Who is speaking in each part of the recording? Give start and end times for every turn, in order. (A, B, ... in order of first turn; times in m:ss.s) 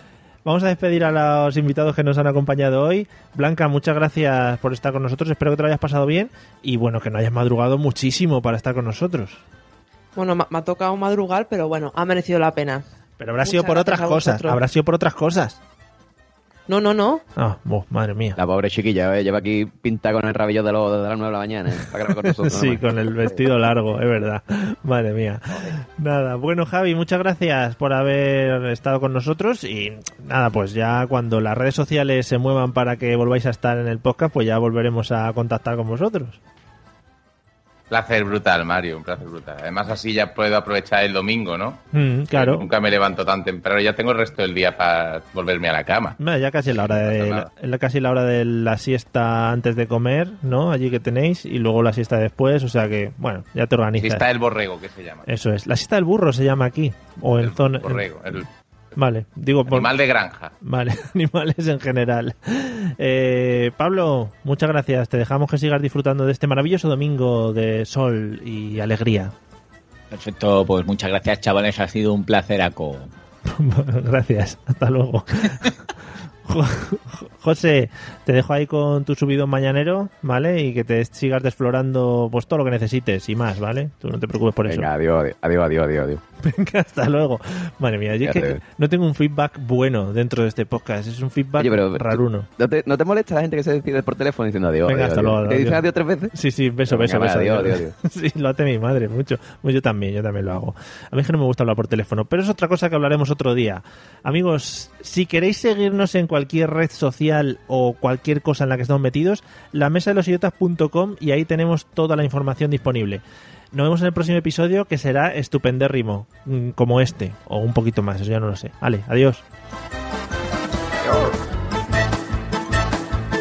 0:00.4-0:09.4 A
0:10.2-0:12.8 B
0:13.2-0:15.6 A
0:13.4-0:14.6 B
0:16.7-0:17.2 B
0:17.4-0:18.4 A
0:18.4-0:23.5 C
0:22.2-0:36.4 A
0:37.9-0:46.2 D
0:41.9-0:42.7 A
0:46.2-0:54.2 A
0:46.8-0:47.5 D
0:54.0-0:55.2 D
0:55.2-0:58.0 A
0:57.4-0:58.5 D
0:59.0-0:59.9 A
0:59.7-1:00.5 D
1:00.6-1:09.3 A
1:10.1-1:13.1 E
1:13.4-1:15.7 A
1:16.4-1:24.9 A
1:24.7-1:26.2 C
1:26.4-1:32.5 A
1:28.2-1:28.6 C
1:31.6-1:36.3 C
1:34.8-1:59.4 A
1:36.9-1:37.9 C